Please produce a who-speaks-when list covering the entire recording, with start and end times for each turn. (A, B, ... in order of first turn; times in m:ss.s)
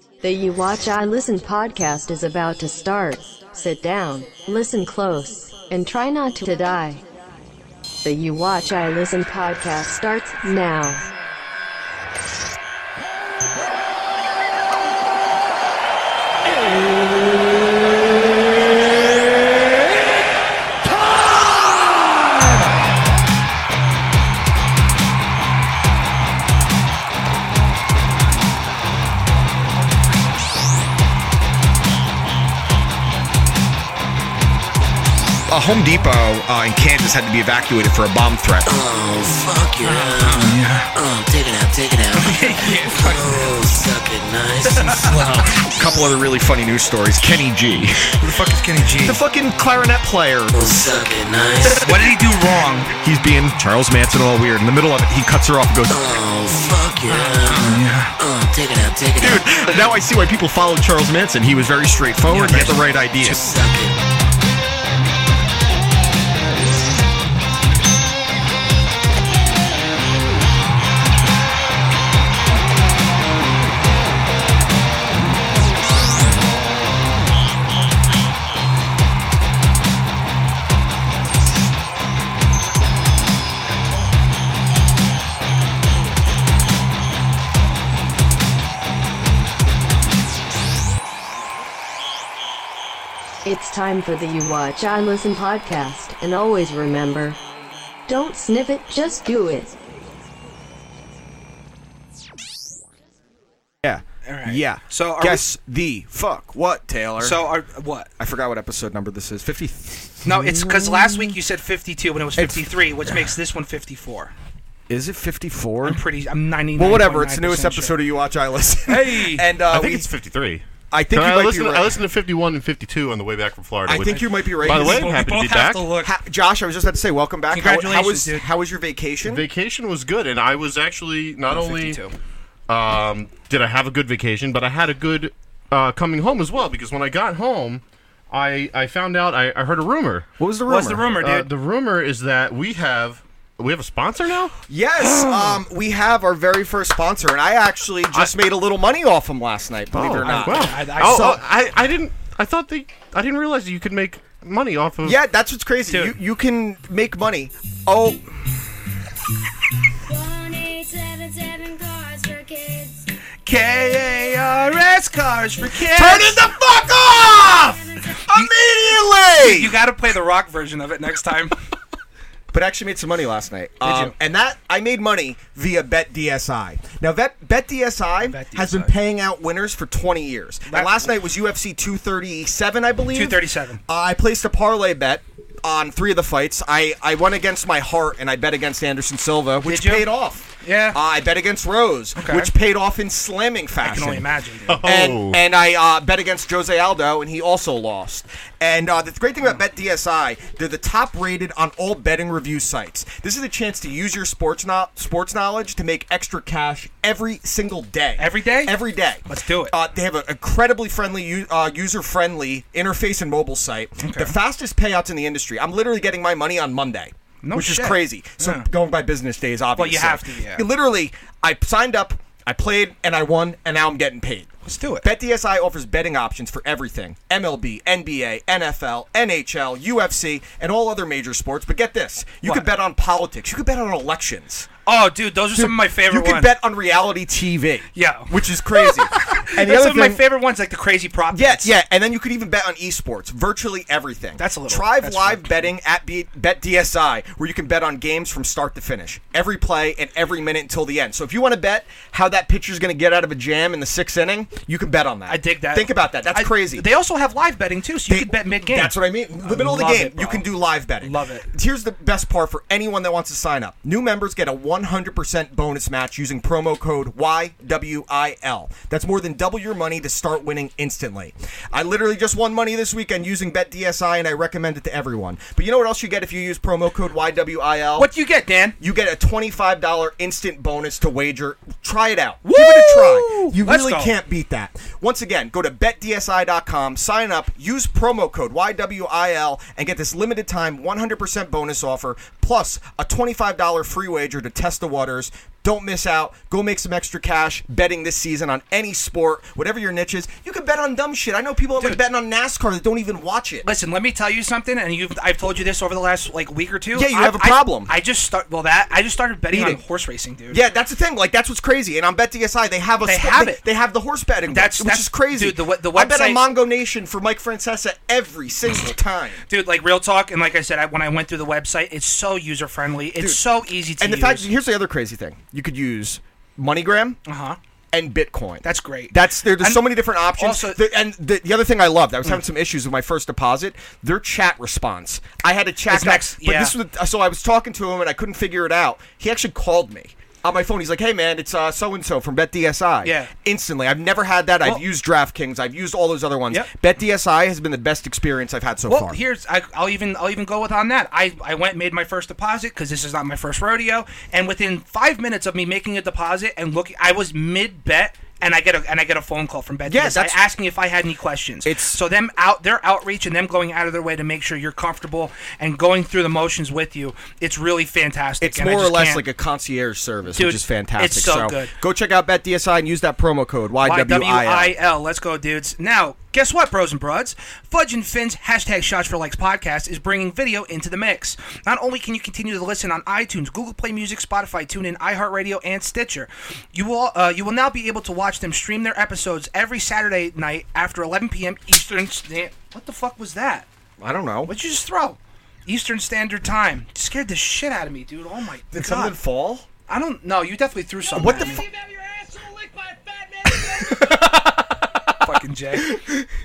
0:00.2-0:07.0 A
0:08.0-0:11.0 A
0:35.5-0:38.7 B
0:38.7-0:45.2 C
0:39.8-0:40.9 D
0:42.2-0:43.5 D
0:44.7-0:45.5 D
0:45.6-0:48.2 B
0:48.2-0:49.2 D
0:49.0-0:50.8 B
0:50.5-0:51.9 C
0:51.8-0:52.9 D
0:53.0-0:56.2 B
0:55.9-0:59.8 C
0:57.1-0:58.1 D
0:59.2-1:03.5 B
1:02.3-1:02.8 D
1:03.2-1:04.0 C
1:33.4-1:37.4 A
1:38.1-1:39.7 A
1:43.8-1:47.4 B
1:44.2-1:45.4 D
1:47.2-1:48.1 D
1:48.2-1:51.4 B
1:50.2-1:54.3 D
1:52.4-1:53.2 B
1:54.9-1:56.0 B
1:55.8-1:58.0 D
1:56.8-2:00.1 B
1:58.9-1:59.5 D
1:59.7-2:05.8 E
2:00.9-2:02.0 B
2:03.8-2:05.1 B
2:04.1-2:06.1 D
2:06.0-2:09.5 B
2:07.5-2:08.4 D
2:09.2-2:12.0 E
2:11.5-2:12.1 D
2:12.7-2:20.3 E
2:20.4-2:21.1 B
2:20.7-2:21.5 D
2:21.0-2:24.5 E
2:24.7-2:31.4 B
2:25.0-2:25.6 D
2:29.9-2:35.2 E
2:30.2-2:31.4 D
2:35.0-2:38.5 B
2:35.9-2:36.2 D
2:40.1-2:43.1 F
2:43.5-2:46.4 D
2:43.9-2:44.2 F
2:45.8-2:49.8 B
2:47.2-2:48.3 F
2:49.3-2:51.6 D
2:52.5-3:14.3 B
2:53.8-2:54.2 D
2:58.2-2:58.9 D
3:00.7-3:01.1 D
3:03.1-3:03.8 D
3:09.6-3:10.1 D
3:10.6-3:11.0 D
3:12.2-3:12.5 D
3:13.8-3:14.8 D
3:14.7-3:15.4 E
3:14.8-3:44.5 B
3:28.2-3:29.8 D
3:34.0-3:34.4 D
3:37.4-3:38.7 D
3:39.8-3:40.7 D
3:44.7-3:45.1 D
3:45.0-3:54.7 B
3:54.9-3:56.5 D
3:55.5-4:00.2 B
3:58.0-4:01.7 D
4:01.3-4:16.9 B
4:04.4-4:05.7 D
4:15.3-4:20.5 D
4:18.1-4:38.1 B
4:21.0-4:21.5 D
4:38.0-4:38.8 D
4:38.8-5:03.7 B
4:42.4-4:44.2 D
5:03.6-5:10.6 D
5:06.9-5:07.9 B
5:09.5-5:09.8 B
5:10.5-5:19.4 B
5:13.0-5:13.6 D
5:14.5-5:16.4 D
5:19.5-5:24.5 D
5:23.2-5:27.2 B
5:27.3-5:27.6 D
5:27.9-5:49.2 B
5:28.6-5:30.8 D
5:35.9-5:36.8 D
5:43.0-5:43.3 D
5:48.9-6:09.2 D
5:59.9-6:00.4 B
6:01.6-6:02.0 B
6:08.4-6:14.7 B
6:10.3-6:11.7 D
6:13.8-6:33.7 D
6:34.0-6:34.5 B
6:34.5-6:39.2 D
6:38.7-6:39.6 B
6:39.9-6:41.7 D
6:41.1-6:41.7 B
6:41.8-6:42.3 F
6:42.8-6:44.0 D
6:43.5-6:45.1 B
6:45.2-6:46.0 D
6:45.8-6:46.3 B